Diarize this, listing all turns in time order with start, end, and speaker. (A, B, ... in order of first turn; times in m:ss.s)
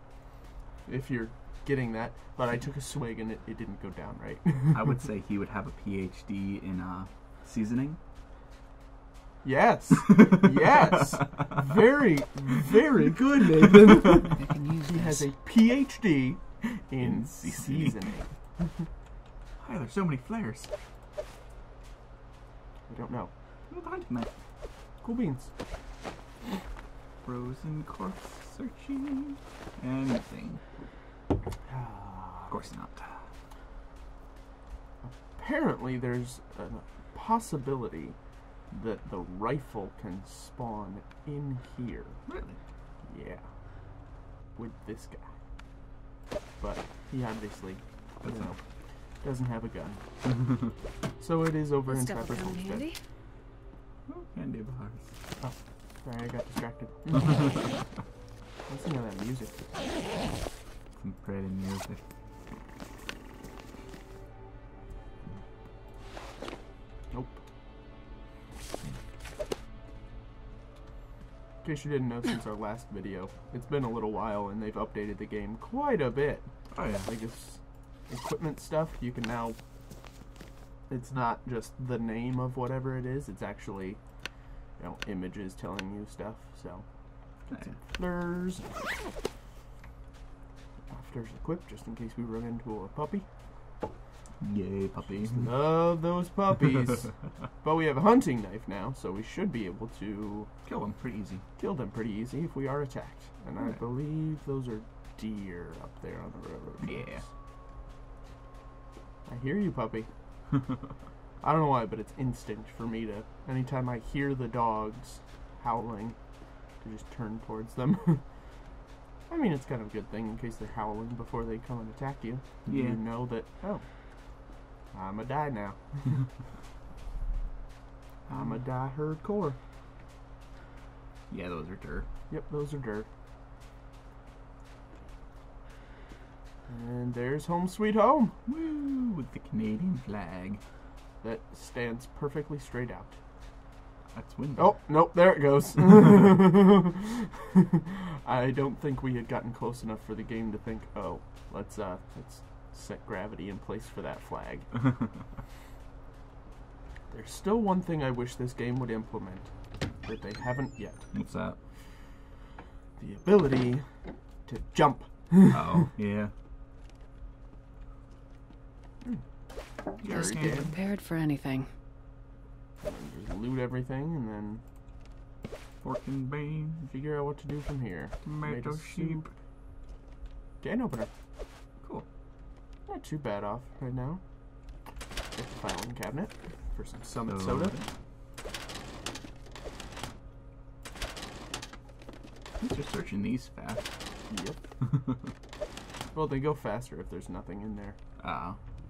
0:00.8-0:04.8 A
0:04.7-0:08.0 B
0:09.4-0:18.8 A
0:14.0-0:15.3 C
0:17.0-0:18.0 B
0:19.6-0:20.7 B
0:22.9-0:23.3 A
0:23.7-0:24.3 B
0:25.0-0:25.5 A
0:27.2-0:30.6 B
0:31.7-0:32.6 A
0:32.5-0:33.2 B
0:35.0-0:38.2 A
0:38.7-0:42.2 A
0:42.3-0:42.6 B
0:43.0-0:43.5 A
0:44.5-0:45.3 A
0:46.6-0:50.0 A
0:51.2-0:52.9 A
0:51.9-0:53.0 C
0:54.1-0:55.1 B
0:55.4-0:57.6 A
0:58.7-0:59.8 A
1:01.0-1:02.0 B
1:07.1-1:07.4 A
1:11.6-1:19.6 A
1:16.7-1:17.1 B
1:20.9-1:24.0 A
1:24.8-1:26.8 A
1:27.4-1:28.8 A
1:30.9-1:33.2 A
1:34.4-1:35.5 B
1:35.0-1:40.5 A
1:40.6-1:41.4 B
1:41.6-1:47.3 A
1:46.8-1:47.2 B
1:49.2-1:50.1 A
1:51.4-1:56.2 A
1:56.8-1:58.2 A
1:59.3-2:03.9 A
2:02.6-2:03.0 B
2:04.9-2:06.2 A
2:08.3-2:08.6 B
2:08.3-2:09.6 A
2:11.3-2:12.1 B
2:12.3-2:13.1 A
2:16.7-2:18.4 A
2:18.5-2:20.6 B
2:21.2-2:23.2 A
2:24.1-2:24.7 B
2:24.6-2:34.7 A
2:37.1-2:41.1 A
2:41.1-2:41.6 B
2:43.0-2:43.9 A
2:44.4-2:45.8 A
2:45.5-2:46.3 B
2:50.0-2:51.7 C
2:50.0-2:50.7 B
2:50.4-2:50.7 A
2:52.8-2:54.6 A
2:55.8-2:56.9 B
2:56.9-2:59.3 A
2:58.2-2:59.2 B
3:00.6-3:01.1 A
3:02.9-3:04.2 A
3:05.3-3:07.8 A
3:07.3-3:07.8 B
3:12.6-3:13.9 B
3:14.3-3:14.6 A
3:16.1-3:18.0 A
3:18.2-3:18.6 B